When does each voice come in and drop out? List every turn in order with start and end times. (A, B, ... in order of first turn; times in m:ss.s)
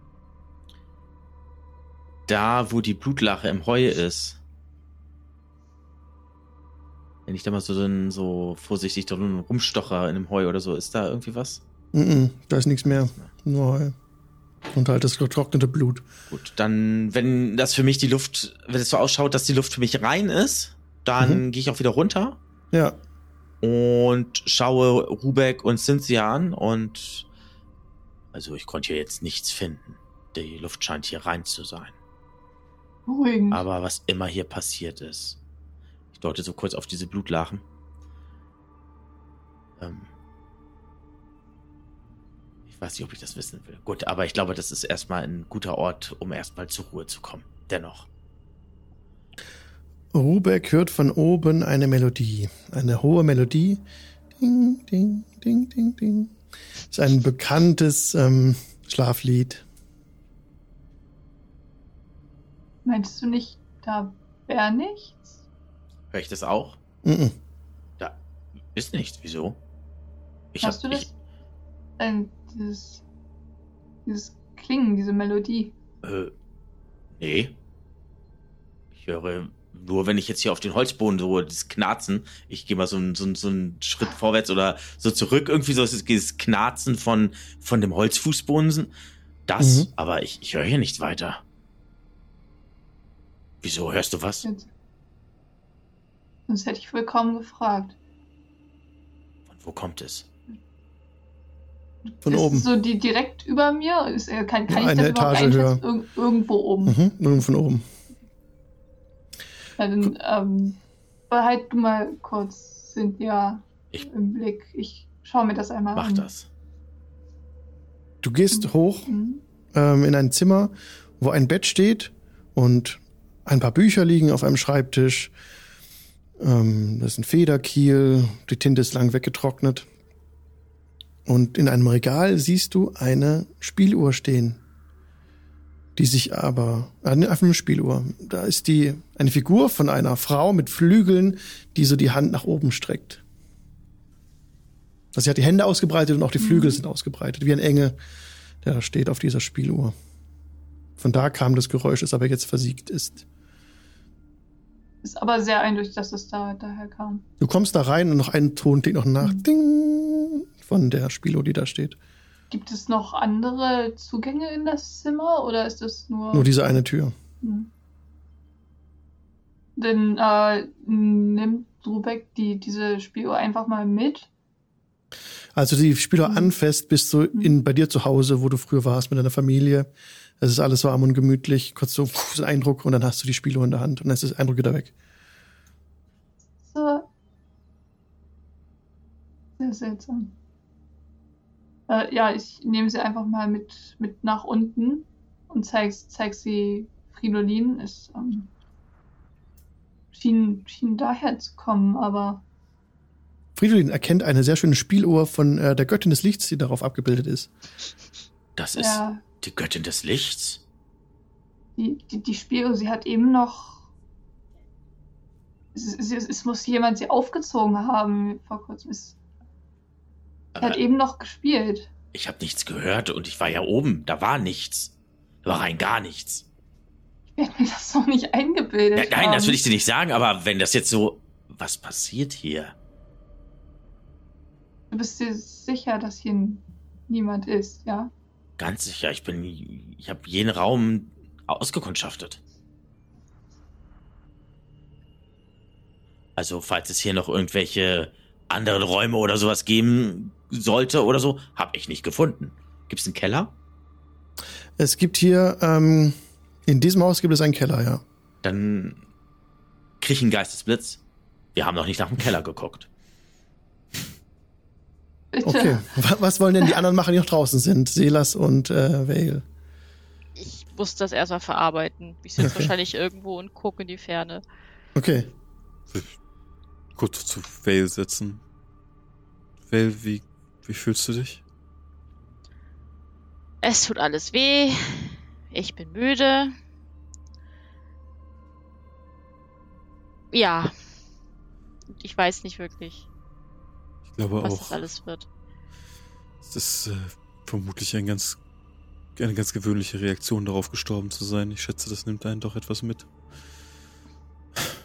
0:02.3-0:04.4 A
0:07.3-0:11.6 A
0:11.9-0:13.9 B
0:12.9-0:13.3 A
0:14.7-0:16.0 B
0:16.3-0:22.4 A
0:22.7-0:23.0 B
0:23.6-0:27.2 A
0:28.3-0:31.9 A
0:33.0-0:33.6 C
0:33.5-0:35.4 A
0:36.2-0:37.6 A
0:39.8-0:40.1 A
0:42.7-0:48.1 A
0:50.1-0:53.8 B
0:54.4-0:56.3 B
0:56.9-0:59.6 B
1:02.8-1:05.2 C
1:06.1-1:06.8 A
1:07.0-1:07.3 B
1:08.7-1:09.6 A
1:10.5-1:11.1 A
1:10.6-1:11.1 C
1:12.0-1:13.0 C
1:14.0-1:15.7 C
1:16.0-1:16.3 A
1:17.2-1:17.5 A
1:19.0-1:28.9 A
1:29.5-1:31.4 A
1:29.6-1:29.9 B
1:33.6-1:34.4 A
1:36.5-1:38.0 C
1:39.5-1:40.2 A
1:42.1-1:47.0 C
1:42.2-1:42.7 B
1:44.7-1:45.8 B
1:46.8-1:47.8 B
1:49.8-1:50.8 C
1:51.3-1:56.3 C
1:55.9-1:56.4 A
1:58.2-1:59.1 B
1:58.5-1:59.4 C
1:59.7-2:05.3 B
2:06.4-2:09.8 B
2:11.2-2:14.6 B
2:16.0-2:23.2 B
2:25.1-2:27.9 B
2:26.4-2:26.8 C
2:28.6-2:29.9 B
2:31.0-2:33.2 B
2:35.0-2:37.2 C
2:37.4-2:42.0 B
2:42.5-2:46.5 C
2:46.3-2:47.1 B
2:47.4-2:47.7 C
2:49.8-2:54.3 C
2:55.6-2:59.9 B
2:56.2-2:56.5 C
3:00.4-3:04.9 B
3:06.7-3:07.1 C
3:09.6-3:10.3 C
3:11.9-3:18.5 C
3:20.1-3:22.4 C
3:23.6-3:27.5 B
3:28.6-3:30.6 A
3:28.8-3:29.2 C
3:31.8-3:33.8 C
3:35.7-3:39.2 C
3:40.5-3:40.8 A
3:40.6-3:41.9 C
3:42.1-3:44.9 A
3:45.4-3:46.4 A
3:47.4-3:49.6 C
3:49.0-3:52.7 A
3:54.9-3:58.1 C
3:58.6-4:02.4 A
4:06.4-4:13.5 A
4:14.8-4:18.0 B
4:18.4-4:19.0 A
4:20.0-4:21.0 A
4:21.5-4:22.9 A
4:25.3-4:25.8 C
4:25.4-4:29.4 B
4:30.4-4:34.4 D
4:32.4-4:32.7 B
4:35.0-4:35.3 B
4:35.9-4:36.2 E
4:37.0-4:38.4 E
4:39.7-4:41.4 E
4:43.6-4:46.5 D
4:50.3-4:50.7 D
4:52.0-4:53.0 D
4:54.1-4:54.8 E
4:54.4-4:55.2 D
4:56.4-4:58.4 E
4:59.2-5:03.1 E